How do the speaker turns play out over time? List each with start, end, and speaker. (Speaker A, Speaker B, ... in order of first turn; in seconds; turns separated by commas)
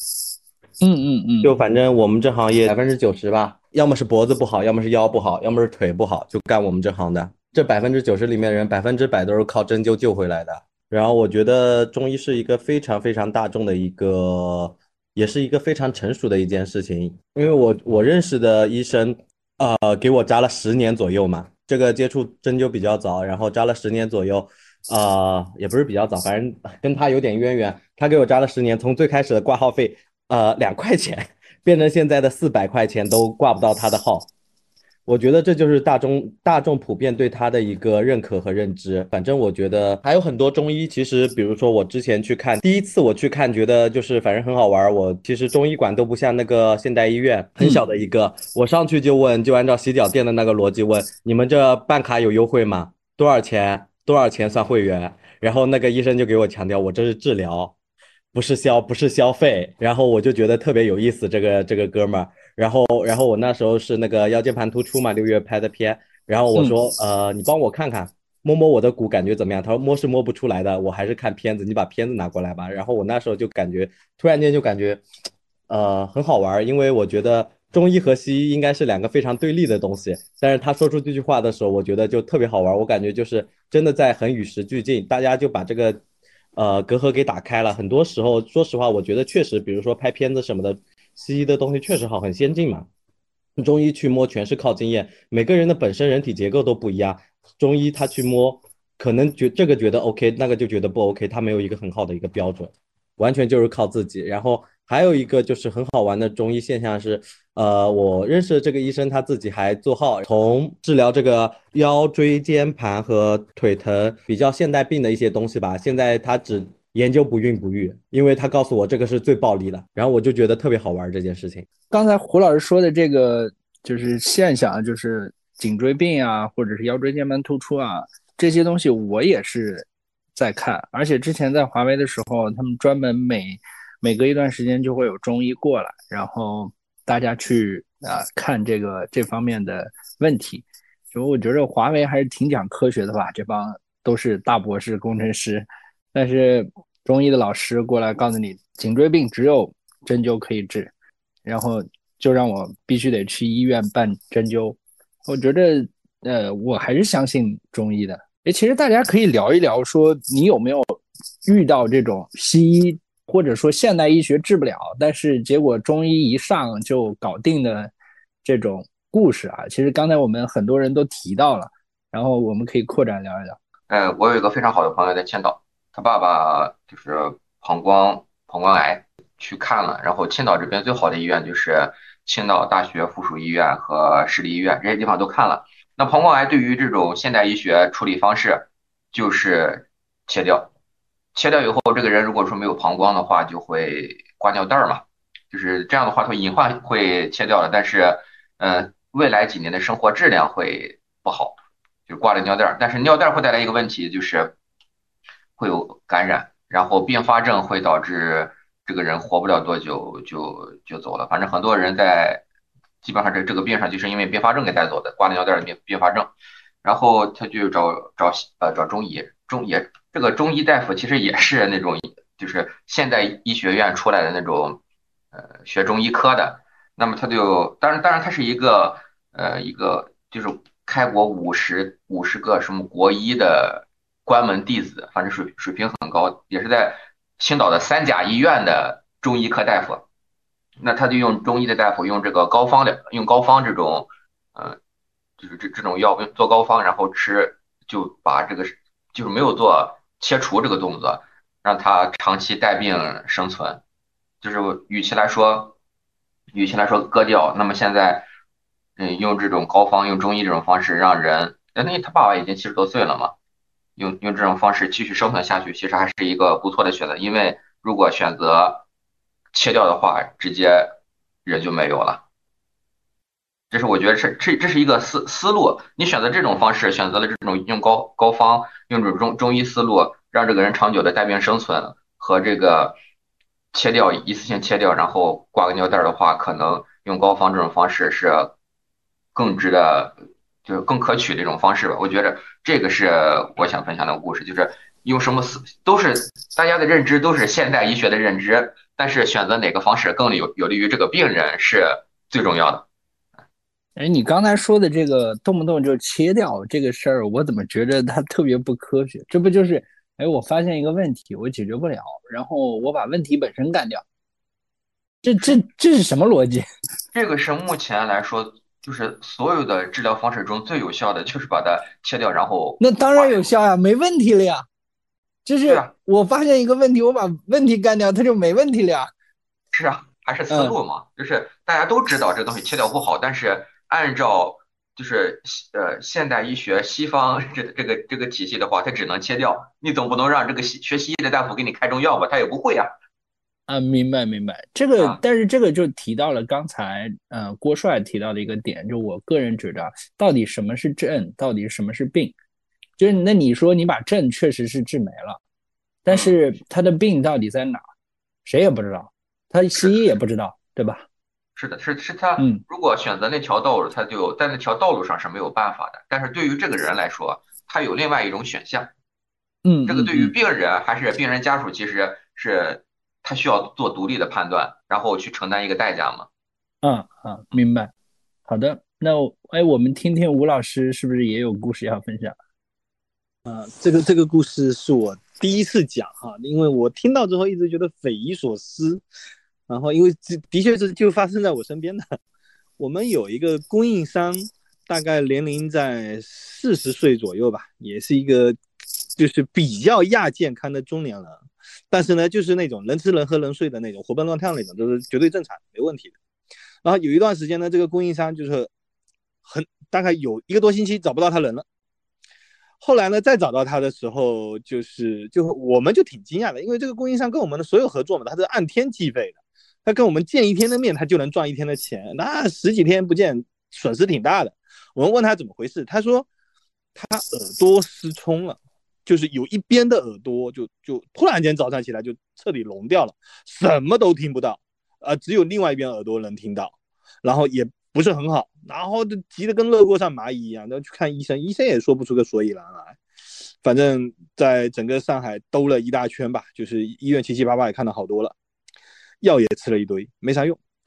Speaker A: 0.8-1.5, Speaker B: 1.4-34.3, Speaker B: 35.0-57.7, Speaker A: 47.6-47.9, Speaker B: 58.3-75.0, Speaker B: 75.7-86.0, Speaker B: 86.5-92.9, Speaker B: 93.6-121.7, Speaker A: 121.9-150.9, Speaker A: 151.4-167.9, Speaker A: 168.4-173.6, Speaker C: 173.9-190.7, Speaker C: 191.3-201.6, Speaker C: 202.1-204.5, Speaker C: 205.6-212.4, Speaker C: 213.0-216.3, Speaker C: 216.8-224.8, Speaker C: 225.3-240.0, Speaker C: 240.8-244.8, Speaker C: 245.4-253.8, Speaker C: 254.4-255.7, Speaker C: 256.5-258.3, Speaker C: 259.0-263.3, Speaker C: 264.0-268.8, Speaker C: 269.5-272.2, Speaker C: 273.7-283.0, Speaker C: 283.7-288.5, Speaker C: 289.3-302.9, Speaker A: 303.9-314.0, Speaker A: 315.2-316.6, Speaker C: 317.1-323.4, Speaker A: 322.8-324.6, Speaker A: 325.4-329.1, Speaker C: 329.7-342.9, Speaker A: 330.5-330.8, Speaker A: 343.7-352.3, Speaker A: 353.0-355.4, Speaker A: 356.0-357.8, Speaker C: 356.1-356.4, Speaker A: 358.4-361.0, Speaker C: 361.6-368.9, Speaker A: 362.4-362.6, Speaker A: 369.6-370.3, Speaker C: 369.9-376.3, Speaker A: 376.8-377.9, Speaker A: 378.5-382.3, Speaker D: 383.4-389.0, Speaker D: 389.7-392.0, Speaker D: 392.8-398.6, Speaker D: 399.2-406.1, Speaker D: 406.8-408.7, Speaker D: 409.4-411.6, Speaker D: 412.8-426.2, Speaker D: 426.9-443.0, Speaker D: 443.6-448.3, Speaker D: 449.2-450.6